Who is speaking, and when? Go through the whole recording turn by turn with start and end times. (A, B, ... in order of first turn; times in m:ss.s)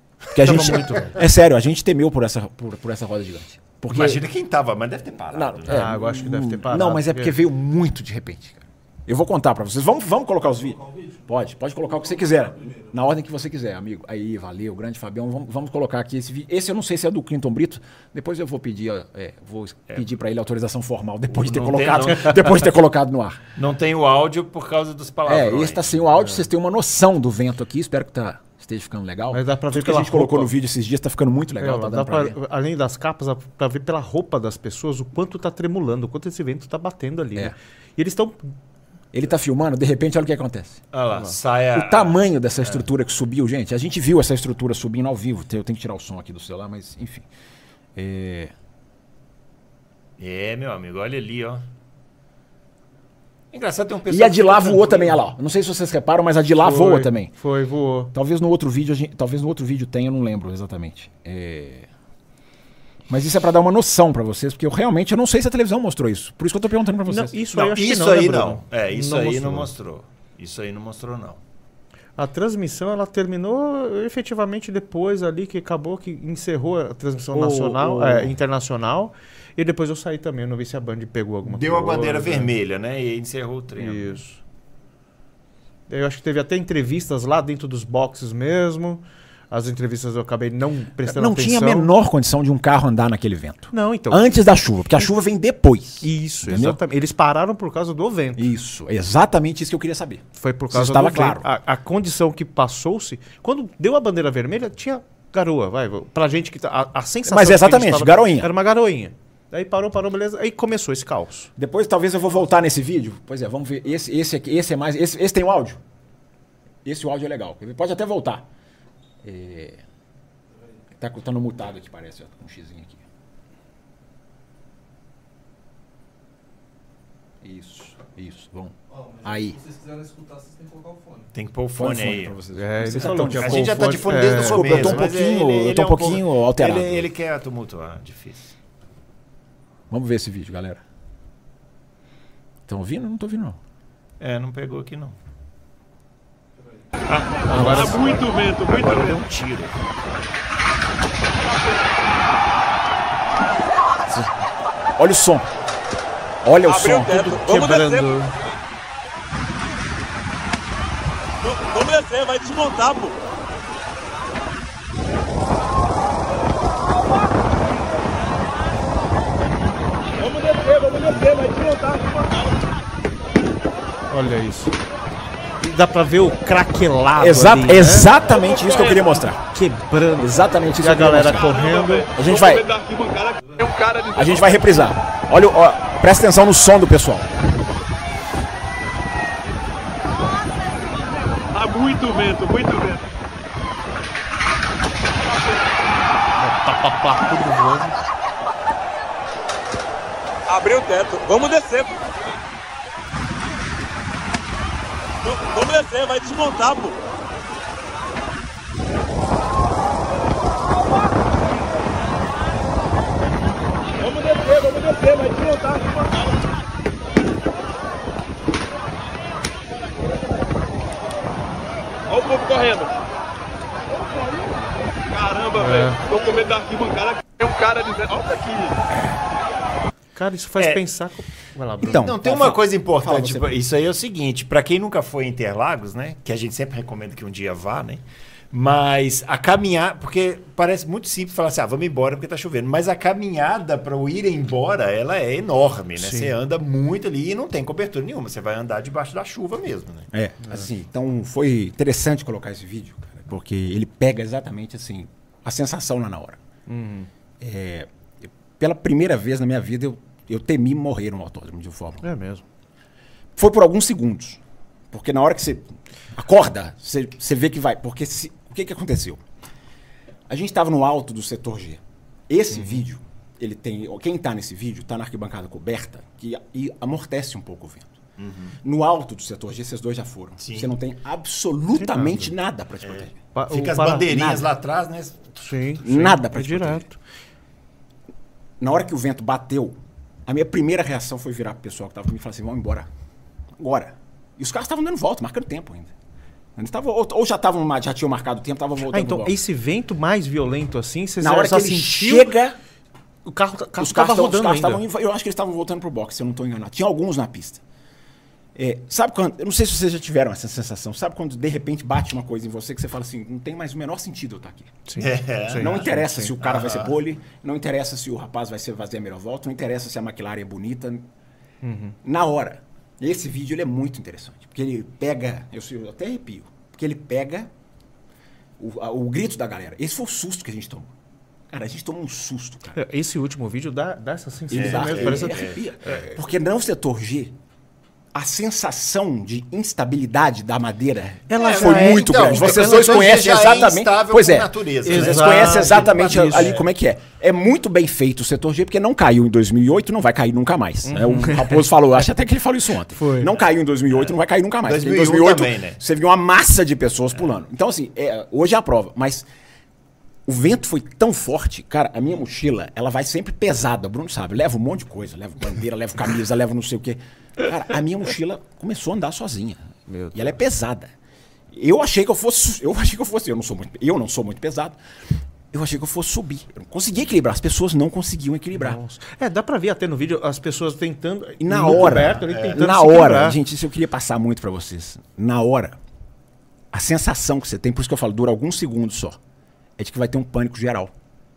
0:00.3-0:04.2 A
0:00.4-0:01.2 B
0:03.9-0:05.8 C
0:05.3-0:23.4 A
0:05.7-0:07.4 B
0:10.8-0:11.2 D
0:12.2-0:12.9 D
0:21.3-0:22.7 C
0:23.6-0:26.0 C
0:25.2-0:32.4 A
0:29.3-0:30.5 B
0:31.6-0:38.5 B
0:39.1-0:40.8 A
0:40.9-0:42.8 C
0:41.7-0:47.3 A
0:48.0-0:48.5 A
0:50.2-0:51.6 C
0:53.5-0:55.2 C
0:54.1-0:57.3 A
0:56.6-0:58.1 B
0:58.1-1:01.9 A
1:03.1-1:07.4 A
1:07.0-1:09.7 B
1:07.5-1:11.4 C
1:12.2-1:22.5 B
1:17.3-1:18.3 A
1:21.4-1:24.2 C
1:23.8-1:24.4 B
1:25.9-1:31.9 B
1:31.0-1:36.8 A
1:33.7-1:34.3 B
1:36.0-1:38.4 B
1:38.4-1:41.4 A
1:40.4-1:51.5 B
1:47.2-1:48.5 A
1:51.6-1:55.8 A
1:56.8-1:58.5 A
1:59.2-1:59.8 A
2:01.0-2:03.0 A
2:07.4-2:09.6 A
2:08.9-2:11.3 D
2:11.3-2:12.4 C
2:11.8-2:17.1 A
2:12.5-2:15.0 B
2:13.0-2:18.5 C
2:19.9-2:20.8 A
2:22.7-2:23.6 A
2:24.2-2:25.1 C
2:27.1-2:29.8 C
2:27.4-2:28.1 B
2:27.5-2:29.2 E
2:34.0-2:34.3 A
2:35.0-2:35.4 A
2:36.4-2:37.4 A
2:36.6-2:38.2 E
2:37.1-2:38.3 B
2:41.4-2:43.2 E
2:50.2-2:52.3 E
2:54.1-2:54.7 B
2:55.6-2:58.1 B
2:57.2-2:59.4 A
2:58.2-2:59.2 E
2:59.5-3:02.1 B
3:00.2-3:01.6 A
3:01.3-3:04.8 E
3:02.1-3:02.6 A
3:04.1-3:07.3 A
3:11.5-3:13.0 E
3:16.4-3:18.0 B
3:20.5-3:22.0 E
3:25.2-3:27.0 E
3:34.1-3:36.1 E
3:42.1-3:43.0 E
3:45.1-3:48.8 E
3:45.6-3:46.0 B
3:50.1-3:52.0 B
3:51.8-3:53.5 A
3:51.8-4:10.1 C
4:06.0-4:06.3 B
4:10.1-4:16.4 A
4:16.7-4:17.1 B
4:17.4-4:22.0 A
4:22.0-4:22.4 B
4:23.4-4:24.4 A
4:24.9-4:29.2 A
4:30.3-4:37.9 A
4:32.5-4:32.8 B
4:38.2-4:38.6 C
4:38.6-4:43.2 A
4:40.4-4:40.7 C
4:41.8-4:42.3 B
4:42.8-4:45.3 C
4:43.3-4:44.1 B
4:44.1-4:44.5 A
4:45.4-4:47.0 B
4:45.8-4:46.8 A
4:48.6-4:52.9 A
4:53.6-4:55.9 A
4:56.6-4:59.4 A
4:58.9-5:02.3 B
5:01.2-5:02.6 A
5:03.2-5:04.8 B
5:03.8-5:07.6 A
5:08.5-5:14.8 A
5:14.9-5:16.3 B
5:15.0-5:16.9 C
5:15.6-5:21.0 A
5:21.6-5:21.9 B
5:22.0-5:27.5 A
5:28.6-5:30.9 A
5:31.5-5:32.8 A
5:32.7-5:36.1 B
5:34.5-5:37.4 A
5:34.5-5:35.6 C
5:38.1-5:59.3 A
5:41.3-5:42.8 B
5:41.3-5:46.7 C
5:44.8-5:46.5 B
5:50.8-5:51.6 B
5:53.0-5:53.3 B
5:54.6-5:55.8 C
6:00.2-6:10.9 A
6:09.9-6:10.4 B
6:11.5-6:14.8 A
6:15.5-6:18.8 A
6:18.5-6:23.4 B
6:21.4-6:25.8 A
6:21.7-6:22.6 C
6:26.7-6:29.2 A
6:29.8-6:30.9 A